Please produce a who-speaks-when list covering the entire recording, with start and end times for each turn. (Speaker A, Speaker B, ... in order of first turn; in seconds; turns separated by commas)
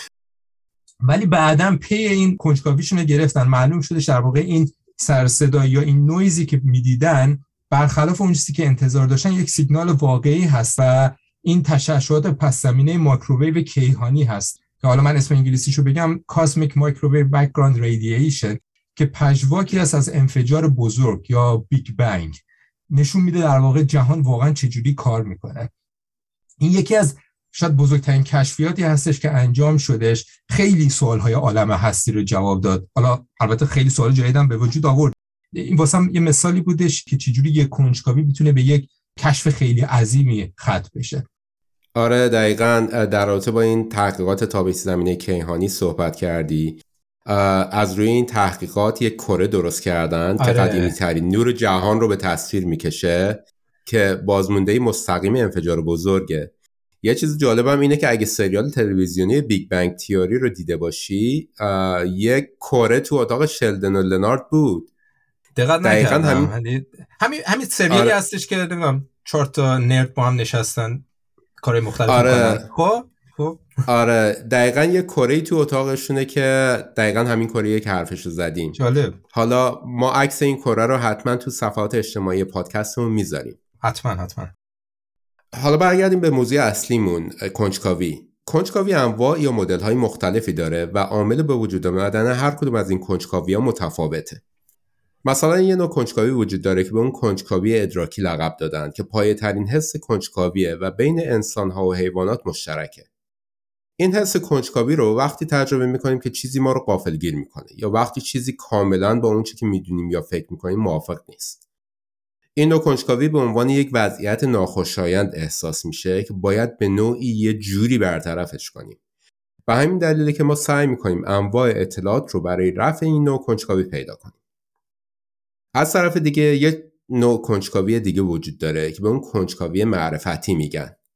Speaker A: 1.0-22.4, Speaker A: 22.9-25.7, Speaker A: 26.6-41.2, Speaker B: 42.0-64.9, Speaker A: 50.4-51.0, Speaker A: 65.6-71.0, Speaker B: 65.8-66.5, Speaker B: 67.9-68.2, Speaker A: 71.6-73.8, Speaker B: 72.1-72.7, Speaker B: 73.9-78.8, Speaker A: 78.8-79.2, Speaker B: 79.3-83.6, Speaker A: 83.8-84.5, Speaker B: 85.5-94.4, Speaker B: 95.2-103.1, Speaker B: 104.0-111.6, Speaker B: 112.6-119.0, Speaker B: 119.7-124.3, Speaker B: 125.7-131.0